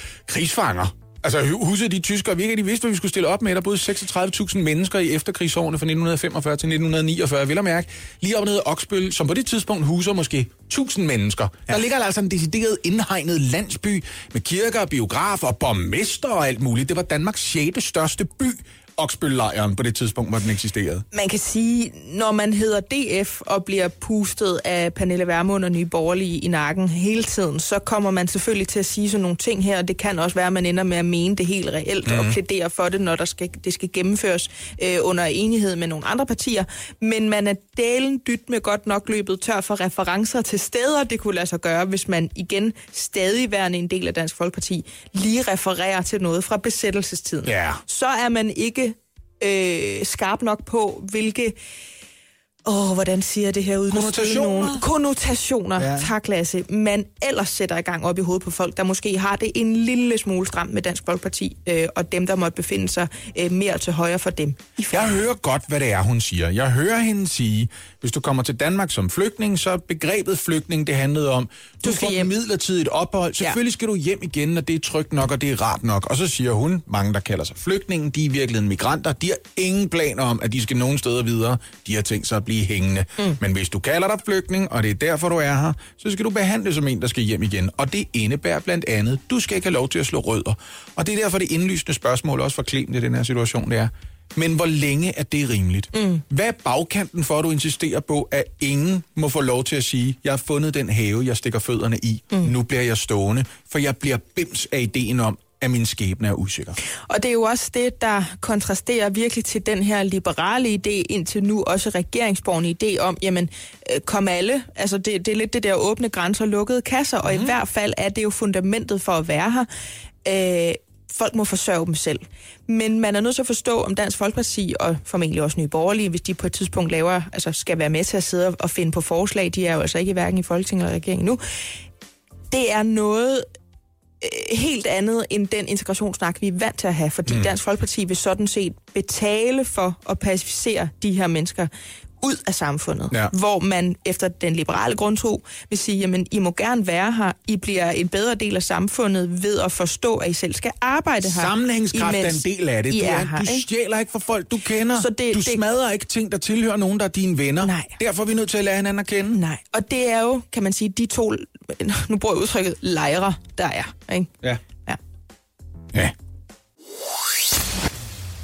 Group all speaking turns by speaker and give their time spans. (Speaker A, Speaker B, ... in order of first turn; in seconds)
Speaker A: 0.3-21.1, 32.0-32.4, 47.4-47.8, 53.9-54.9, 55.8-56.1, 64.9-106.8, 117.3-117.5, 151.2-159.4
Speaker B: 21.1-51.6, 52.6-65.0, 71.8-72.3, 95.9-96.2, 107.1-119.7, 120.2-131.4, 132.5-133.5, 134.2-141.7, 142.2-153.7, 155.0-155.6, 157.6-158.0, 159.3-164.3